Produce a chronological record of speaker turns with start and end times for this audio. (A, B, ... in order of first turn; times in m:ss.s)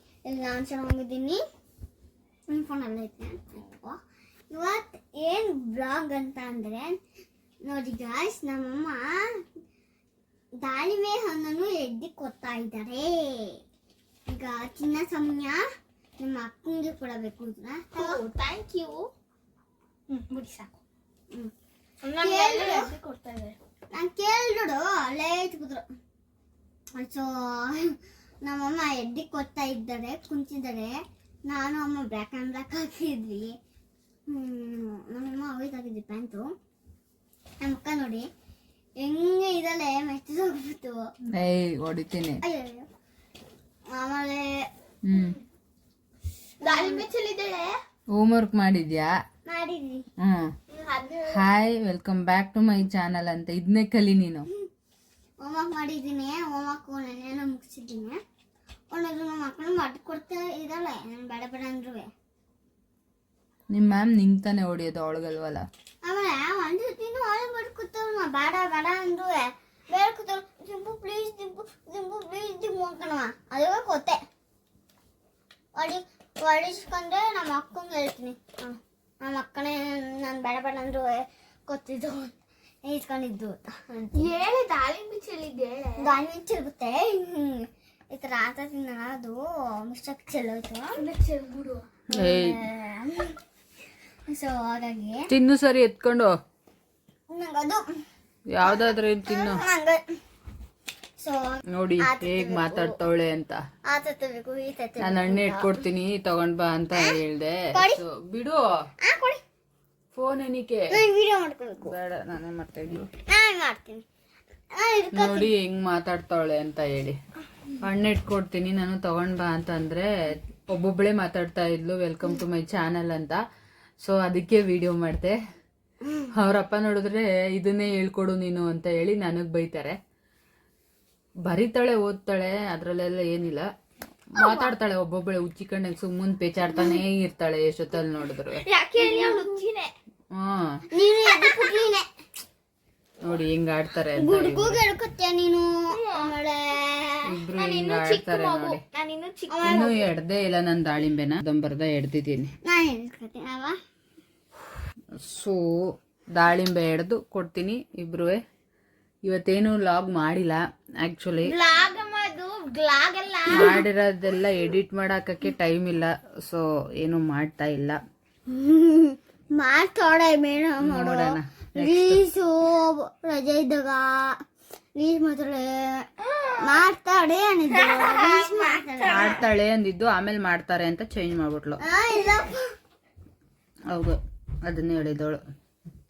0:00.2-0:01.4 A
0:02.5-0:04.0 A
0:04.5-0:07.0 A
0:07.6-0:09.4 A
0:10.6-0:13.6 A
0:14.3-0:15.6 A
0:16.2-0:18.2 A
0:18.0-0:19.1 B
0:20.1-0:20.7 B
0:22.0-0:23.6 B
0:22.2-0:22.9 A
0:23.9-0:25.8 A
0:27.0-0:30.9 A
0:31.5-0:33.5 A
0:34.3-0:36.5 A
0:37.6-0:38.3 A
0:39.0-0:41.0 A
0:41.3-0:42.4 C
0:42.4-0:42.9 A
0:43.9-0:44.7 A
0:45.0-0:45.4 C
0:45.1-0:45.4 B
0:46.6-0:47.1 A
0:46.6-0:47.8 B
0:48.1-0:49.1 C
0:49.5-0:50.0 A
0:50.2-0:50.5 C
0:50.7-0:51.5 B
0:51.3-0:54.5 C
0:55.4-0:58.2 A
0:58.9-1:02.1 A
1:03.7-1:05.7 C
1:06.0-1:14.2 A
1:15.8-1:22.3 A
1:22.9-1:24.3 A
1:24.1-1:26.1 B
1:26.0-1:31.0 A
1:31.0-1:31.8 B
1:32.1-1:32.6 C
1:32.1-1:33.4 A
1:34.3-1:35.3 A
1:35.3-1:36.4 C
1:37.3-1:37.8 A
1:38.5-1:39.6 C
1:38.6-1:40.0 A
1:41.2-1:43.0 A
1:41.7-1:43.6 C
1:43.9-1:45.7 A
1:45.0-1:48.7 C
1:47.7-1:48.0 A
1:49.0-1:49.4 A
1:50.1-1:51.0 C
1:50.9-1:51.9 A
1:51.8-1:53.1 C
1:53.3-1:54.0 A
1:54.8-1:55.5 A
1:55.1-1:57.2 C
1:57.8-2:03.4 C
2:04.0-2:05.4 C
2:06.3-2:10.0 C
2:11.4-2:13.7 C
2:14.3-2:18.6 C
2:14.4-2:14.7 A
2:18.6-2:19.9 B
2:19.0-2:19.6 A
2:20.3-2:20.8 C
2:20.9-2:22.1 A
2:21.2-2:21.8 B
2:23.2-2:24.8 C
2:24.1-2:27.3 A
2:25.9-2:26.3 B
2:27.3-2:28.8 C
2:27.5-2:30.0 B
2:29.5-2:30.0 A
2:29.6-2:32.5 C
2:32.6-2:33.8 A
2:35.2-2:38.4 C
2:39.2-2:41.5 C
2:41.4-2:43.8 B
2:43.5-2:48.0 C
2:48.5-2:54.4 A
2:50.8-2:52.2 C
2:55.0-2:56.0 A
2:56.3-2:56.6 B
2:56.6-2:59.4 A
2:57.8-2:59.4 B
2:59.0-3:01.8 C
3:01.8-3:02.7 A
3:03.9-3:05.4 C